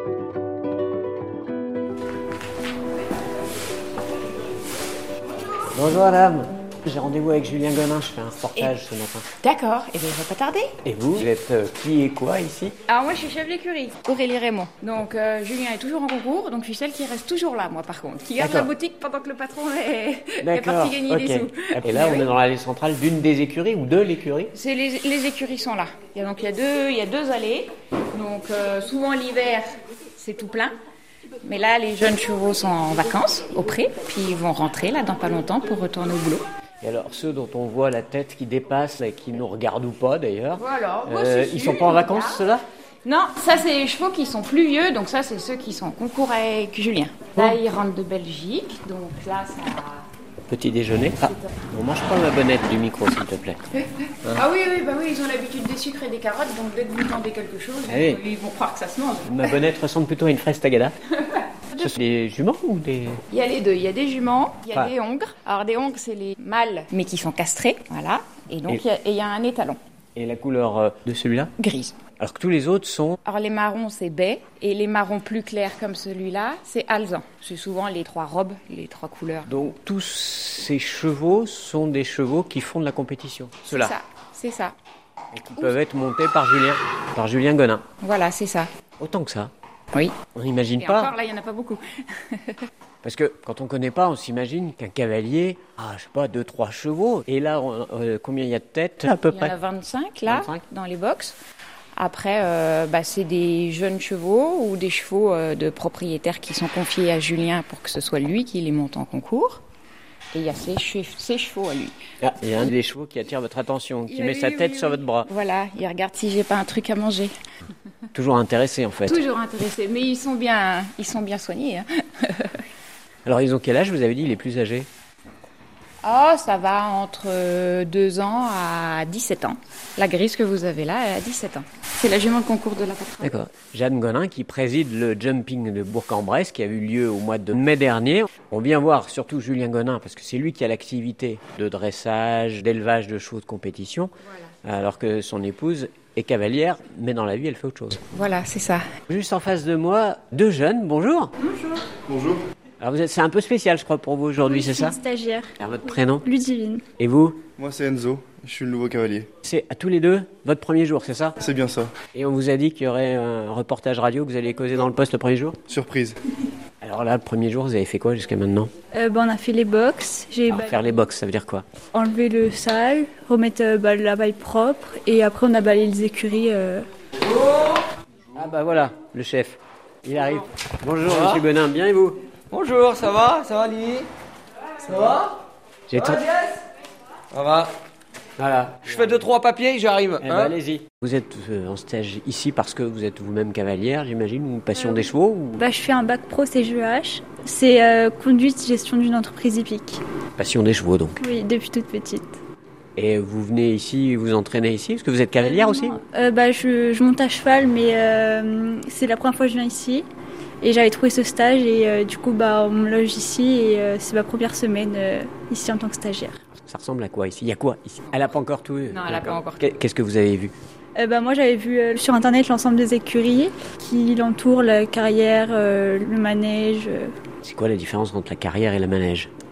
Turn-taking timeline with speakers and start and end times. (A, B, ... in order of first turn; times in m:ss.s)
0:05.7-0:09.2 A
0:09.4-0:10.8 B
0:10.8-0:12.8 A
0:12.9-0:22.3 B
0:18.4-0:18.7 A
0:20.4-0:24.5 A
0:24.5-0:30.7 B
0:31.4-0:36.4 B
0:36.8-0:42.6 A
0:40.6-0:42.4 B
0:43.0-0:50.1 B
0:50.5-0:53.6 A
0:51.2-0:51.5 B
0:53.8-0:59.6 B
0:57.9-0:58.2 A
0:59.2-1:00.9 A
1:01.2-1:01.9 B
1:01.8-1:03.2 A
1:03.3-1:09.8 B
1:10.1-1:11.5 A
1:11.6-1:12.0 B
1:12.2-1:13.2 A
1:13.2-1:19.5 B
1:19.5-1:23.9 A
1:23.7-1:24.7 B
1:25.3-1:27.8 A
1:28.0-1:28.7 B
1:29.0-1:29.5 A
1:30.3-1:31.1 A
1:30.8-1:32.7 B
1:33.0-1:39.6 A
1:39.2-1:41.4 B
1:40.3-1:40.6 A
1:42.0-1:49.6 B
1:50.3-1:52.0 B
1:52.2-1:55.3 A
1:54.1-1:57.3 B
1:58.1-1:59.2 A
1:59.1-2:02.6 B
2:03.2-2:04.9 A
2:06.0-2:13.3 B
2:13.2-2:24.1 A
2:24.6-2:28.0 A
2:28.1-2:28.9 B
2:29.1-2:31.3 A
2:32.1-2:32.4 C
2:32.8-2:35.0 A
2:34.4-2:35.5 D
2:35.6-2:36.2 A
2:36.2-2:36.8 D
2:37.0-2:37.4 A
2:37.6-2:39.3 C
2:39.4-2:41.4 A
2:41.4-2:42.0 C
2:42.1-2:45.6 A
2:45.7-2:46.2 C
2:46.8-2:48.7 A
2:48.9-2:50.8 D
2:50.5-2:51.6 A
2:51.9-2:56.9 D
2:57.2-2:57.8 E
2:58.3-3:02.2 A
3:01.0-3:01.4 E
3:02.5-3:04.1 E
3:04.8-3:05.4 E
3:05.9-3:06.2 A
3:05.9-3:06.6 E
3:07.3-3:07.7 E
3:08.4-3:09.3 A
3:08.8-3:10.5 E
3:10.2-3:15.6 A
3:14.8-3:20.0 D
3:20.4-3:21.2 A
3:21.2-3:22.4 D
3:23.0-3:26.0 A
3:25.4-3:30.0 D
3:30.6-3:36.4 D
3:36.6-3:40.5 A
3:38.9-3:39.7 B
3:41.0-3:47.1 D
3:47.4-3:49.3 A